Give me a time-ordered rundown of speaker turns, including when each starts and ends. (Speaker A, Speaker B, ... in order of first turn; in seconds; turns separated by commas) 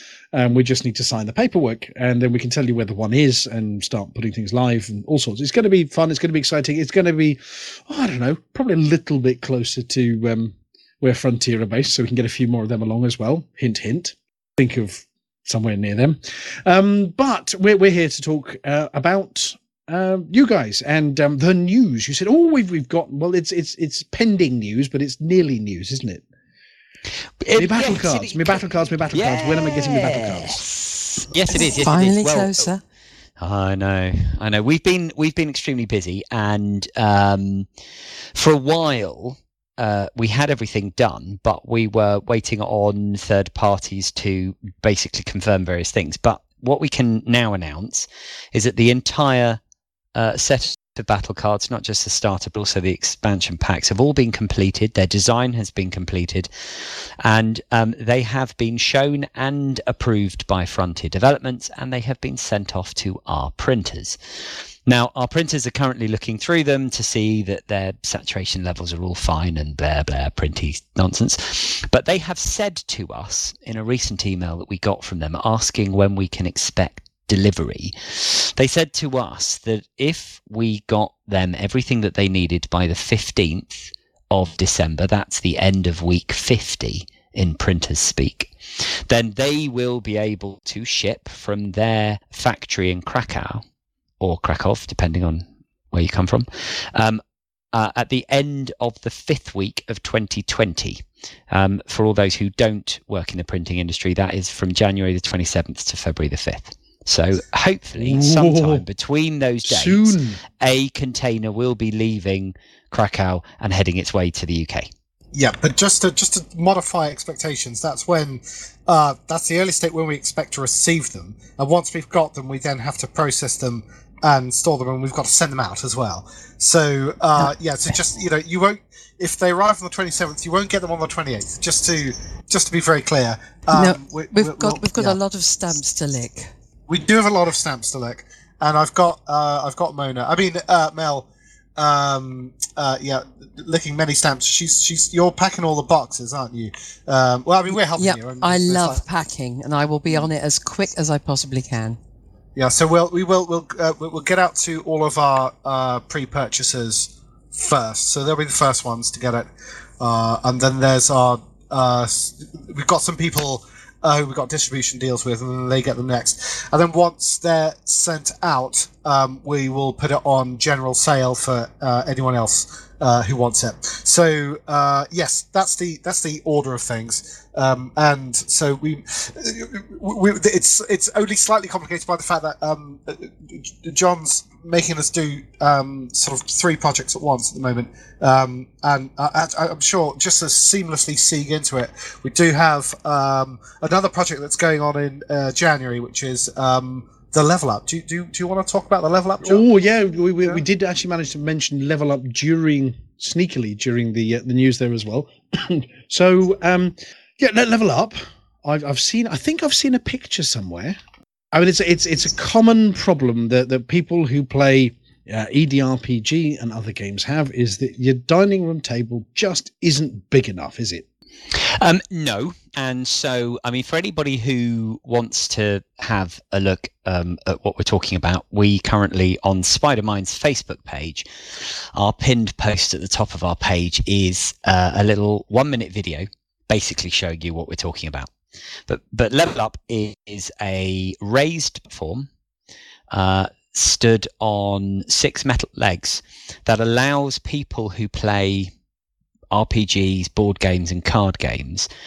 Speaker A: 0.3-26.2, Speaker B: 27.4-32.7, Speaker A: 27.6-30.6, Speaker C: 31.5-32.8, Speaker B: 33.4-37.7, Speaker B: 38.4-49.6, Speaker B: 50.1-56.5, Speaker B: 57.2-64.2, Speaker B: 64.9-88.5, Speaker B: 89.1-93.6, Speaker B: 94.2-97.2, Speaker B: 97.7-114.9, Speaker A: 108.0-108.8, Speaker A: 109.7-110.4, Speaker D: 115.3-135.2, Speaker C: 133.7-136.5, Speaker D: 136.9-149.0, Speaker C: 147.7-152.0, Speaker D: 152.6-159.5, Speaker D: 160.0-199.7, Speaker A: 199.4-211.0, Speaker A: 211.5-221.1, Speaker B: 221.8-231.3, Speaker B: 231.9-238.3, Speaker B: 238.9-242.3, Speaker B: 243.1-248.7, Speaker B: 249.5-251.9